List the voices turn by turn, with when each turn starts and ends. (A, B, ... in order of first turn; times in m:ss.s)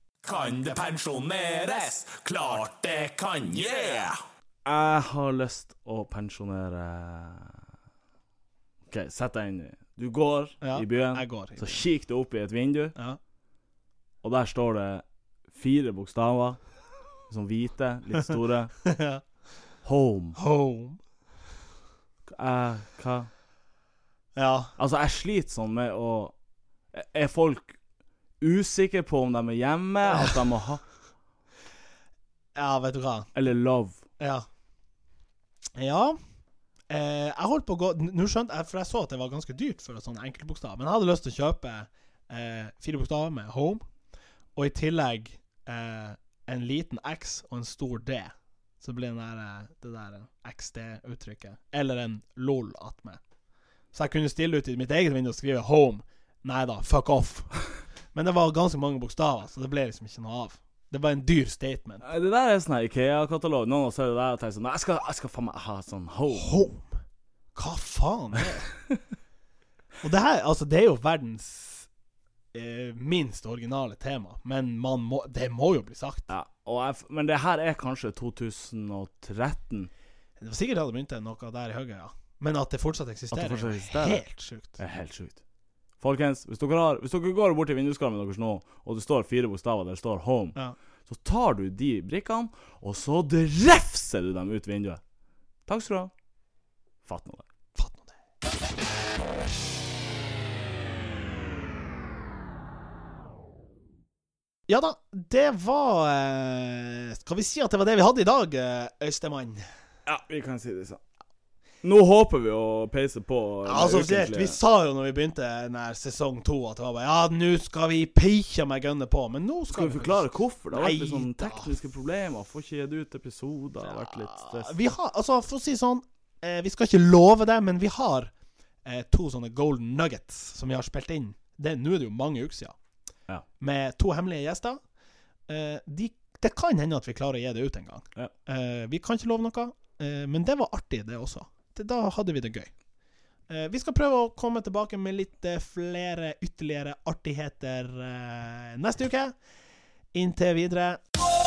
0:00.2-0:04.2 A
0:04.6-0:07.6 B
0:08.9-0:12.9 B
0:10.6-0:11.8 C
0:14.2-0:16.6 B
0:17.3-0:18.7 B
0:18.8-0:19.2 C
0:19.8-0:20.4 B
0:20.4-0:21.0 C
0:22.3-0:23.3 B
0:24.4-0:24.7 C
0:24.8-0:26.4 B
0:26.9-0:27.8 B
0:28.4-0:30.8 B
0:30.1-0:30.4 C
0:32.6-0:33.3 C
0:33.4-0:34.0 B
0:34.2-0:34.5 C
0:35.8-0:36.2 C
0:36.9-0:43.8 C
0:44.6-0:53.2 C
0:53.9-0:57.5 C
0:58.1-1:02.1 C
1:02.0-1:06.7 B
1:06.3-1:06.9 C
1:07.6-1:08.7 C
1:10.0-1:11.9 C
1:12.5-1:16.3 C
1:16.3-1:19.9 B
1:20.4-1:24.8 C
1:23.3-1:24.2 B
1:24.8-1:25.4 B
1:26.0-1:30.6 B
1:31.1-1:35.0 B
1:35.7-1:36.1 B
1:37.0-1:37.4 B
1:37.8-1:38.2 C
1:44.7-1:49.6 C
1:50.1-1:51.0 B
1:51.8-1:54.6 B
1:53.6-2:01.8 C
1:59.7-2:04.8 B
2:04.0-2:08.3 C
2:08.8-2:12.8 C
2:13.6-2:14.8 C
2:15.5-2:22.7 C
2:23.5-2:29.4 C
2:30.1-2:31.0 C